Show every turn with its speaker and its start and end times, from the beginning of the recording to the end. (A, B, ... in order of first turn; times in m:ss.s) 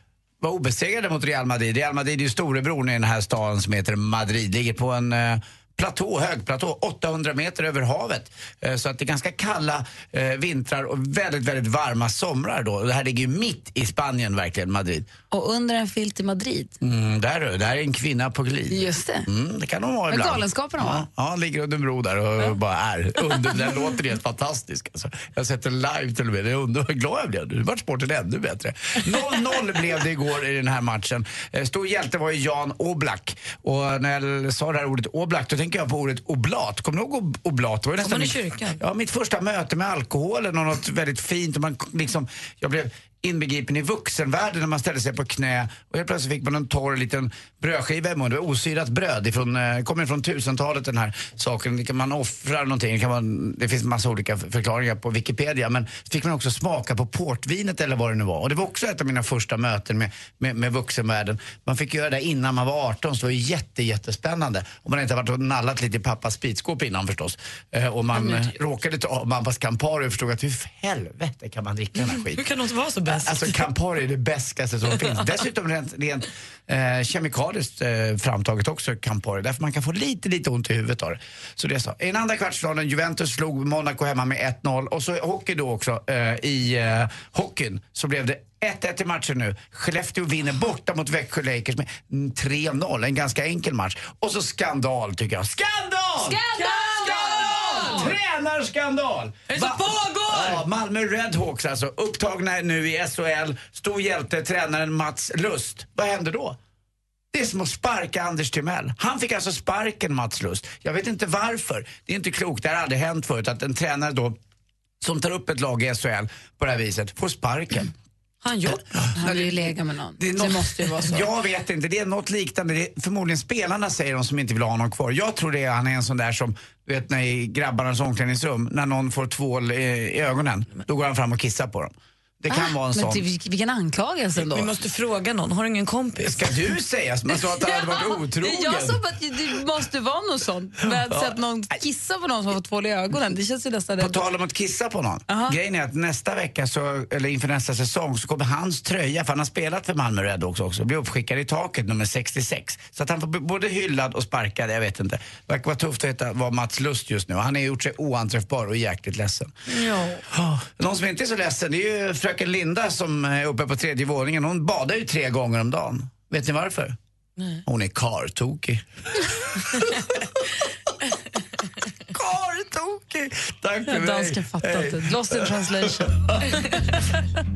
0:00.4-0:15.1 A
0:15.3-0:16.7 B
0:16.8-1:12.4 A
0:18.7-0:19.3 B
0:20.1-0:21.0 B
0:38.0-0:38.8 C
1:12.2-1:13.6 C
1:13.1-1:46.6 A
1:36.3-1:37.8 B
1:36.5-1:38.1 C
1:39.5-1:40.6 C
1:47.3-1:54.4 A
1:55.0-1:57.9 A
1:58.4-1:59.3 C
1:58.7-1:59.6 A
1:59.2-2:01.3 B
2:00.2-2:13.2 A
2:12.5-2:14.7 B
2:14.4-2:16.5 C
2:16.2-2:19.0 A
2:17.3-2:24.2 B
2:20.9-2:21.4 A
2:24.0-2:39.5 A
2:25.3-2:25.6 B
2:39.7-2:40.2 C
2:40.3-2:47.0 A
2:47.4-2:47.6 C
2:47.6-2:49.9 A
2:52.1-2:57.0 A
2:53.9-2:57.2 B